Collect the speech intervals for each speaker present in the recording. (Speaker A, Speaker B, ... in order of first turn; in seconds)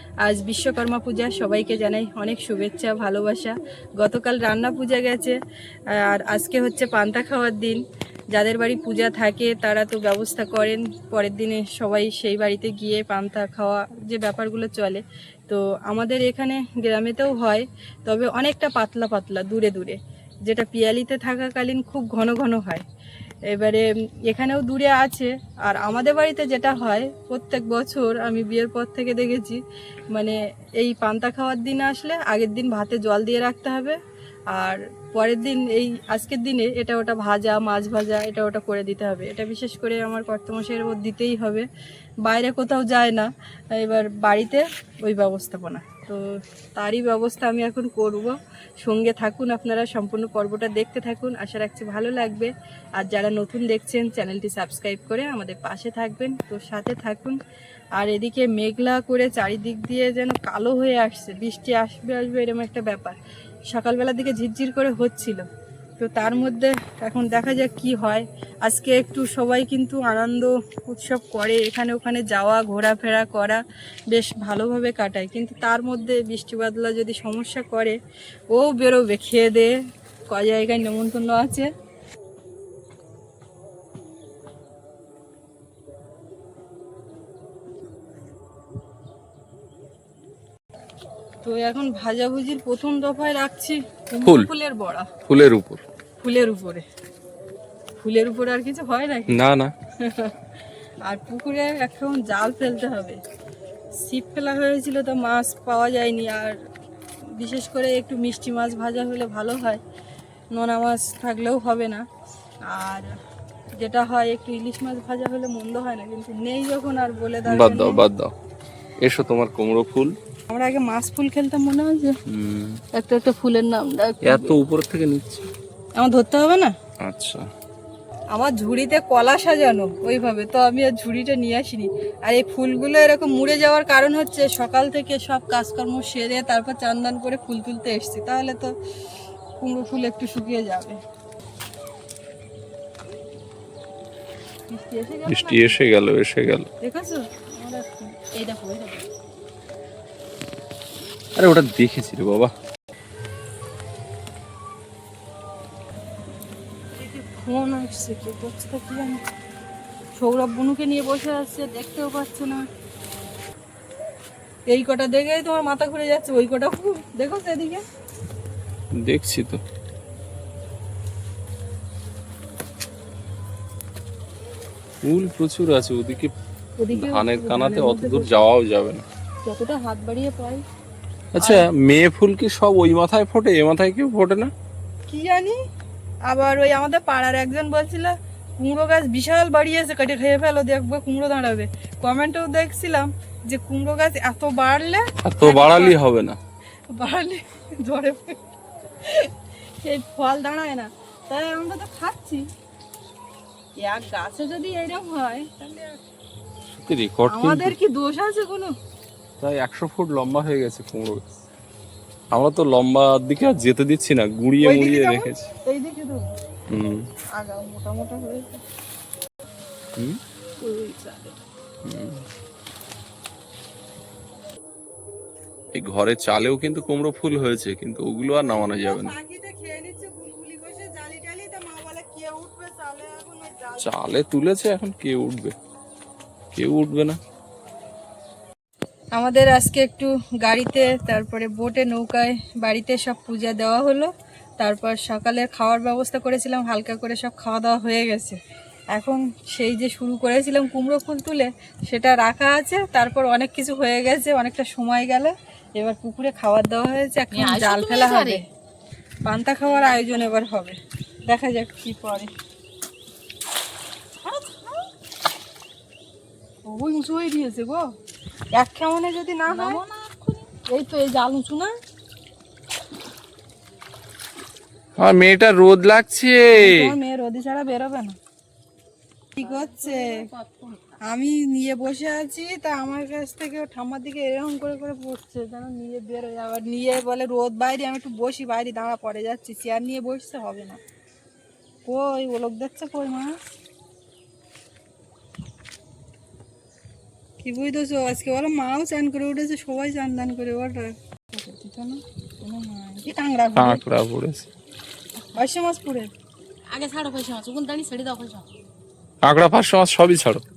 Speaker A: 0.2-5.4, 5.9-7.8, 8.3-22.8, 23.5-29.6, 30.1-34.0, 34.5-41.7, 42.2-46.2, 46.8-57.4, 58.0-63.1, 63.7-65.5, 66.0-73.6, 74.1-78.0, 78.5-79.8, 80.3-81.7, 91.4-95.1, 96.2-96.8, 98.0-99.4, 100.0-100.3, 101.0-103.2, 104.0-106.6, 107.4-109.8, 110.5-112.0, 112.7-113.1, 113.8-118.0, 120.5-122.2, 122.9-124.6, 126.0-126.7, 128.3-138.7, 139.6-141.0, 144.7-145.8, 146.8-149.1, 156.9-159.2, 160.2-162.6, 164.7-167.8, 176.8-178.3, 179.4-180.6, 181.4-181.7, 185.1-185.6, 186.3-195.9, 196.9-198.4, 199.0-202.5, 203.8-206.0, 207.3-208.7, 214.6-216.3, 217.3-218.6, 220.6-221.3, 228.4-233.9, 239.1-248.4, 248.9-258.4, 259.2-262.3, 266.6-267.9, 268.5-269.8, 270.7-271.7, 276.5-278.2, 279.4-280.3, 281.0-290.8, 291.9-293.4, 297.4-303.8, 305.4-306.1
Speaker B: 94.2-94.5, 95.2-95.8, 99.3-99.7, 117.5-118.3, 119.0-120.2, 122.3-122.8, 124.2-125.5, 127.0-127.5, 145.3-146.7, 151.3-152.5, 169.0-169.6, 175.0-176.3, 176.9-179.0, 181.3-184.5, 195.2-196.4, 206.7-207.7, 209.4-211.3, 212.3-215.5, 216.7-217.1, 221.8-222.2, 225.7-229.1, 233.8-235.5, 236.5-237.2, 275.0-276.9, 303.6-304.5, 309.2-310.4
Speaker C: 257.3-258.4, 259.6-260.3, 264.2-264.8, 269.5-270.5, 279.4-281.0, 306.7-308.4